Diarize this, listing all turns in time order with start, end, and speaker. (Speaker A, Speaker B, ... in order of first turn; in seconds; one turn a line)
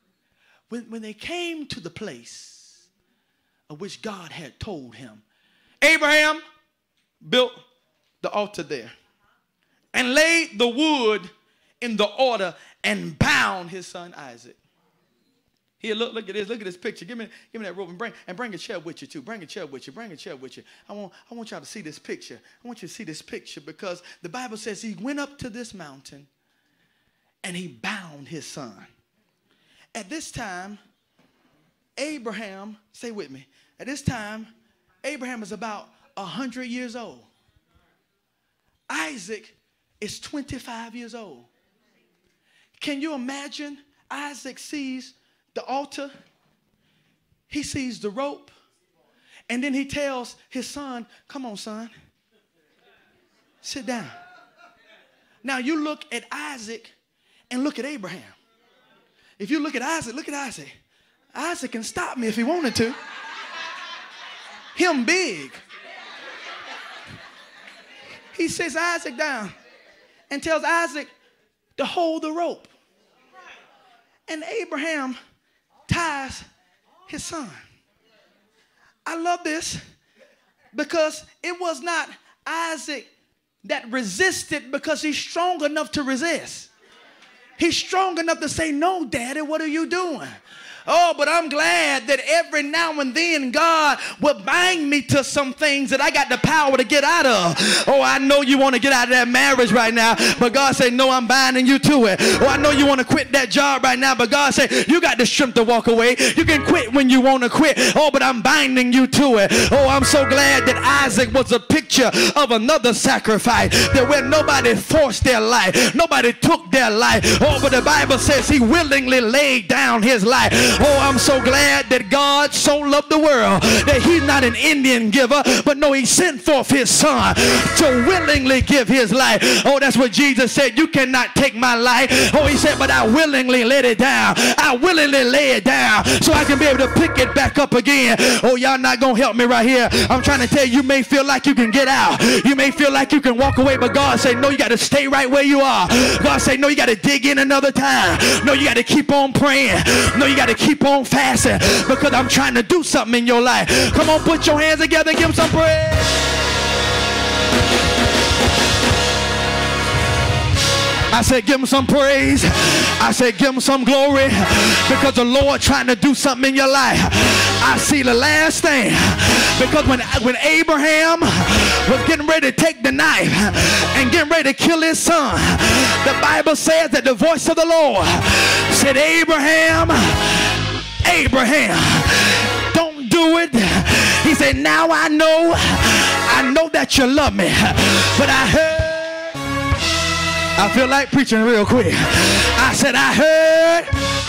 Speaker A: 0.7-2.9
Speaker A: 3.7-5.2
Speaker A: 5.8-6.4
Speaker A: 7.2-7.6
Speaker A: 8.2-8.9
Speaker A: 9.9-11.3
Speaker A: 11.8-14.6
Speaker A: 15.8-26.3
Speaker A: 27.4-28.9
Speaker A: 29.9-30.8
Speaker A: 32.0-34.5
Speaker A: 35.0-37.3
Speaker A: 38.9-41.5
Speaker A: 42.8-46.1
Speaker A: 47.5-48.5
Speaker A: 49.5-51.9
Speaker A: 53.6-54.1
Speaker A: 55.4-56.9
Speaker A: 57.5-58.3
Speaker A: 59.4-60.7
Speaker A: 61.3-63.0
Speaker A: 64.8-65.6
Speaker A: 68.3-69.5
Speaker A: 70.3-71.1
Speaker A: 71.8-72.7
Speaker A: 74.3-75.2
Speaker A: 75.9-76.5
Speaker A: 77.1-77.6
Speaker A: 79.1-79.8
Speaker A: 80.7-83.1
Speaker A: 83.6-86.7
Speaker A: 87.6-156.2
Speaker A: 161.1-189.4
Speaker A: 190.6-193.9